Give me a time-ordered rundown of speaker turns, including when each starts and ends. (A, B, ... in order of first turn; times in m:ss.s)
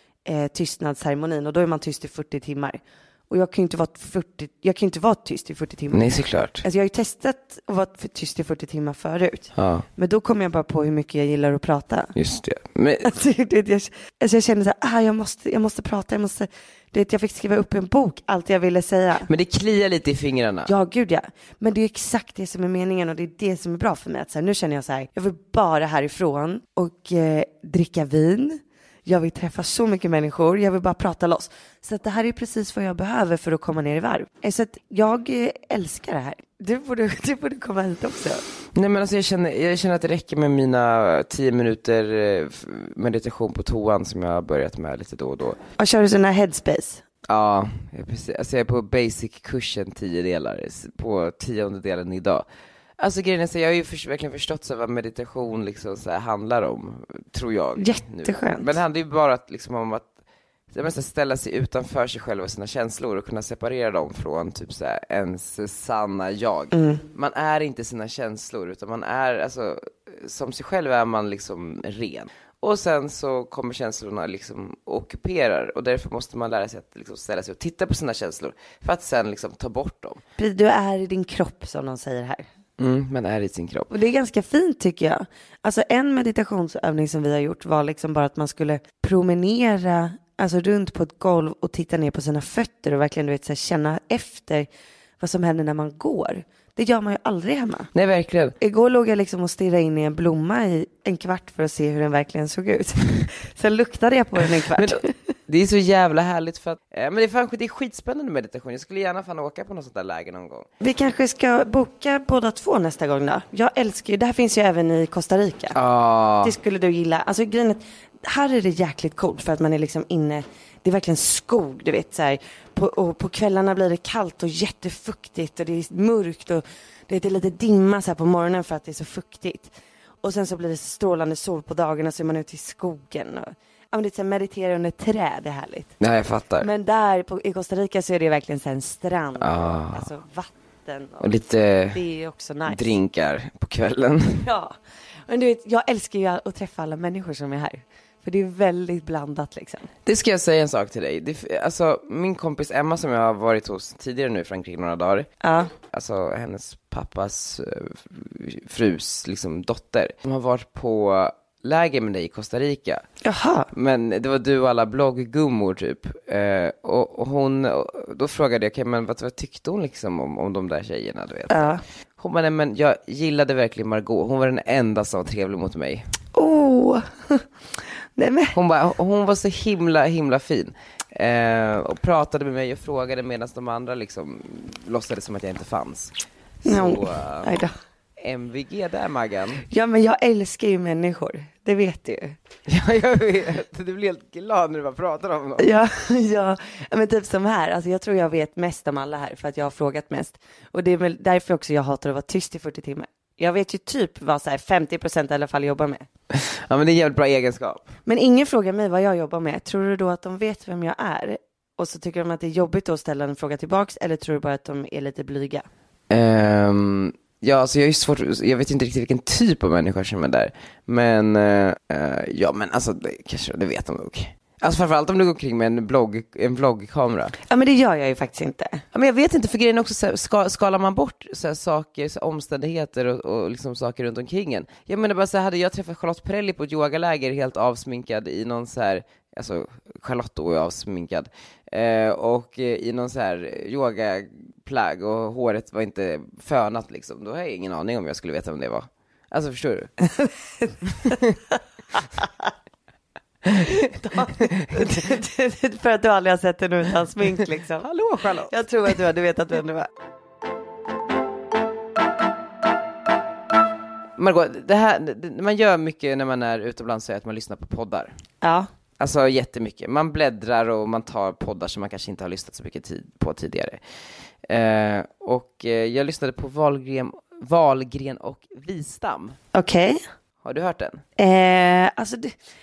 0:00.2-0:12.1 A
0:05.9-0:06.6 B
0:09.6-0:09.8 B
0:12.1-0:13.1 B
0:13.0-0:19.3 A
0:19.3-0:20.7 B
0:20.6-0:38.4 A
0:38.7-0:45.6 B
0:45.8-0:47.0 A
0:47.2-0:52.5 B
0:53.0-1:00.1 B
0:57.8-0:58.7 A
1:00.7-1:20.2 B
1:06.7-1:07.0 A
1:20.4-1:22.4 A
1:22.8-1:23.9 B
1:23.9-1:34.7 A
1:35.2-1:37.9 A
1:37.9-1:38.5 B
1:38.6-1:45.1 A
1:44.6-1:50.7 B
1:50.8-1:55.8 A
1:55.7-1:56.6 B
1:56.4-2:15.9 A
2:16.0-2:16.7 B
2:16.6-2:21.3 A
2:19.4-2:20.1 B
2:21.2-2:22.0 B
2:21.9-2:22.9 A
2:22.7-2:24.5 B
2:24.4-2:24.7 A
2:25.3-2:29.9 A
2:30.0-2:35.3 B
2:35.4-2:35.7 A
2:35.8-2:43.0 B
2:43.2-2:43.7 A
2:43.7-2:56.0 B
2:51.5-2:51.8 A
2:56.3-2:57.4 A
2:58.2-2:58.5 A
2:58.5-3:07.6 B
3:06.6-3:07.7 A
3:08.2-3:09.6 B
3:09.7-3:12.4 A
3:12.7-3:15.7 B
3:15.6-3:26.0 A
3:26.3-3:27.9 B
3:28.0-3:35.6 A
3:36.1-3:47.3 B
3:47.5-3:48.8 A
3:48.9-4:09.9 B
4:10.2-4:11.2 A
4:11.0-4:11.3 B
4:12.0-4:12.5 A
4:13.6-4:17.8 A
4:17.8-4:18.5 B
4:18.5-4:19.9 A
4:24.2-4:28.1 B
4:28.4-4:28.7 A
4:29.0-4:33.8 B
4:34.5-4:39.4 B
4:39.5-4:40.0 A
4:40.4-4:41.0 B
4:41.2-4:42.3 A